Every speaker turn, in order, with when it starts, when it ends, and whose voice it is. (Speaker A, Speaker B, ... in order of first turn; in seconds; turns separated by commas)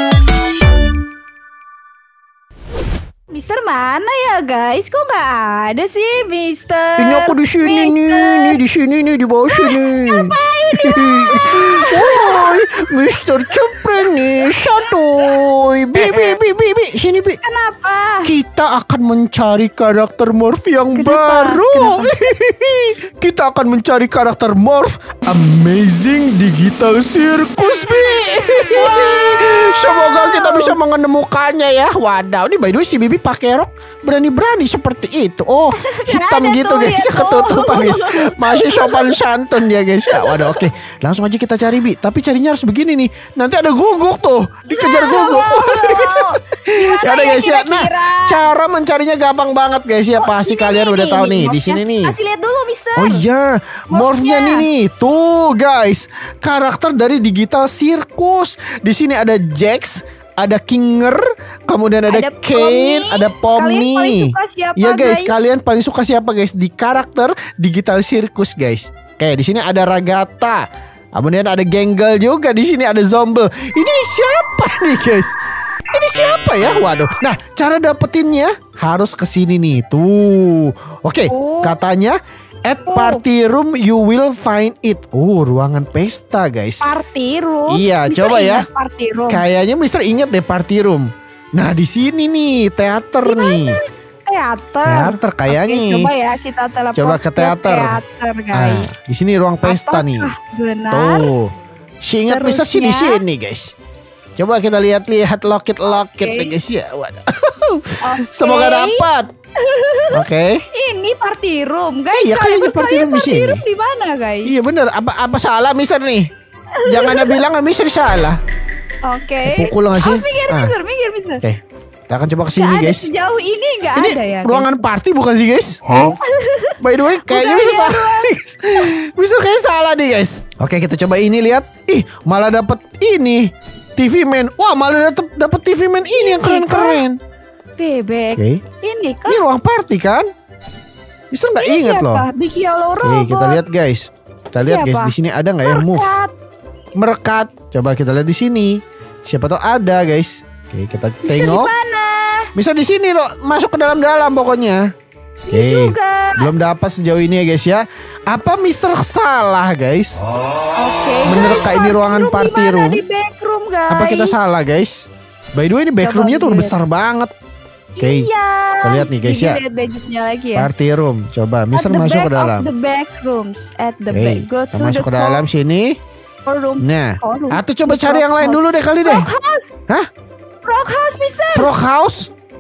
Speaker A: 3.3-8.6, Speaker B: 7.0-17.4, Speaker A: 9.5-12.7, Speaker A: 13.7-14.8, Speaker A: 16.0-16.4, Speaker A: 17.4-18.3, Speaker B: 18.2-52.2, Speaker A: 20.9-22.3, Speaker A: 27.6-30.8, Speaker A: 35.8-39.2, Speaker A: 40.1-40.6, Speaker A: 44.7-48.5, Speaker A: 50.2-53.2, Speaker B: 53.0-75.3, Speaker A: 53.9-54.7, Speaker A: 62.1-65.5, Speaker B: 75.9-86.9, Speaker A: 81.3-81.8, Speaker A: 82.9-83.2, Speaker A: 86.8-89.4, Speaker B: 87.7-88.7, Speaker B: 89.3-93.8, Speaker A: 93.2-98.9, Speaker B: 94.8-96.1, Speaker B: 97.0-98.0, Speaker B: 98.5-100.3, Speaker A: 99.6-101.3, Speaker B: 100.9-103.7, Speaker A: 102.3-103.2, Speaker B: 104.4-109.3, Speaker A: 105.9-106.5, Speaker A: 108.0-110.2, Speaker B: 110.1-110.7, Speaker A: 110.7-114.5, Speaker B: 112.1-113.6, Speaker B: 114.5-116.3, Speaker A: 116.8-117.4, Speaker B: 116.8-118.4, Speaker A: 119.0-121.4, Speaker B: 119.5-120.7, Speaker B: 121.4-123.1, Speaker A: 122.6-124.8, Speaker B: 124.0-126.1, Speaker A: 125.9-128.3, Speaker B: 126.8-137.2, Speaker A: 136.1-137.0, Speaker A: 137.8-139.4, Speaker B: 138.4-138.6, Speaker B: 139.3-140.2, Speaker B: 141.3-142.3, Speaker A: 141.6-143.6, Speaker B: 143.0-146.2, Speaker A: 144.6-146.3, Speaker B: 147.0-151.7, Speaker A: 151.2-152.5, Speaker B: 152.6-154.8, Speaker A: 155.5-156.5, Speaker B: 155.5-160.2, Speaker A: 160.8-164.5, Speaker B: 161.2-163.0, Speaker B: 163.9-165.0, Speaker B: 165.6-167.3, Speaker A: 166.0-166.8, Speaker A: 168.0-170.7, Speaker B: 168.0-168.3, Speaker B: 168.8-169.6, Speaker B: 170.6-172.7, Speaker A: 171.7-175.5, Speaker B: 174.1-176.0, Speaker A: 176.4-179.8, Speaker B: 176.8-179.3, Speaker A: 180.6-181.7, Speaker B: 181.5-182.3